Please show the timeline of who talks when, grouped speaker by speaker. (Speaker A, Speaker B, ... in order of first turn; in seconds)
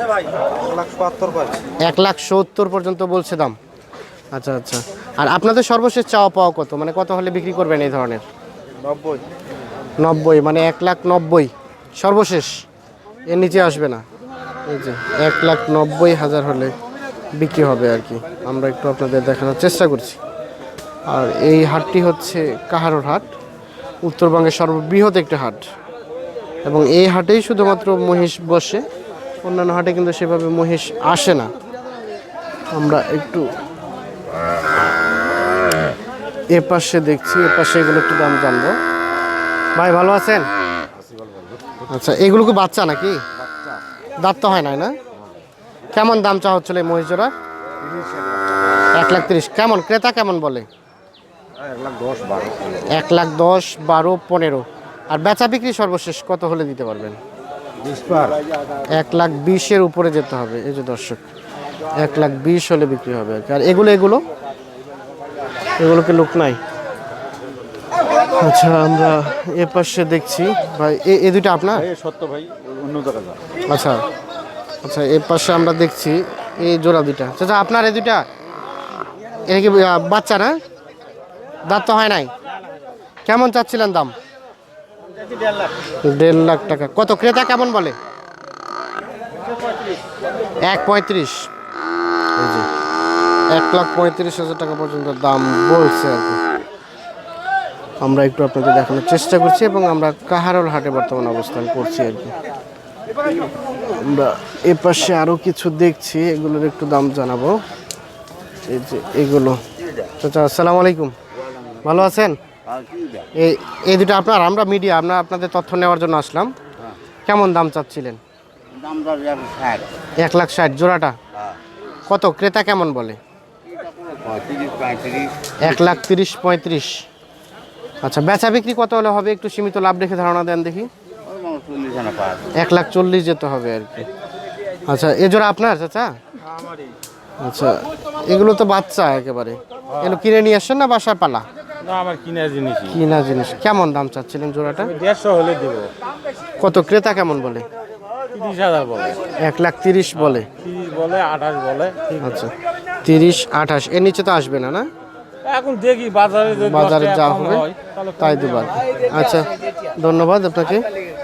Speaker A: 0.7-1.6, 8.9-9.2, 51.7-52.8, 57.8-58.4, 72.5-73.3, 112.7-113.3, 118.8-119.9, 123.8-125.5, 131.3-132.5
Speaker B: 0.8-1.5, 71.9-73.3, 141.8-142.9, 144.8-145.9, 148.3-149.2, 150.4-152.4, 155.4-158.8
Speaker C: 1.8-3.6, 4.3-8.2, 10.0-12.6, 13.3-14.0, 14.7-16.7, 17.4-20.2, 21.1-23.3, 24.1-25.6, 26.7-28.9, 29.4-31.5, 32.8-33.5, 36.5-38.8, 39.8-40.5, 41.9-43.2, 44.2-45.0, 45.9-47.3, 48.9-50.7, 52.9-57.2, 58.9-61.2, 61.9-64.2, 65.8-66.6, 68.3-71.9, 73.7-74.0, 74.8-78.2, 79.5-80.6, 81.7-82.3, 83.3-84.1, 86.0-88.0, 90.7-91.5, 92.4-92.7, 93.5-96.4, 98.0-102.3, 103.9-107.6, 108.7-109.6, 110.2-111.2, 111.8-112.4, 113.4-116.5, 117.3-118.2, 120.2-121.2, 122.1-123.2, 125.6-127.0, 128.0-130.9, 132.5-134.1, 134.8-136.2, 137.4-141.5, 142.9-144.9, 146.6-147.7, 149.3-150.5, 152.2-152.5, 153.0-154.9, 156.5-157.7, 158.2-160.9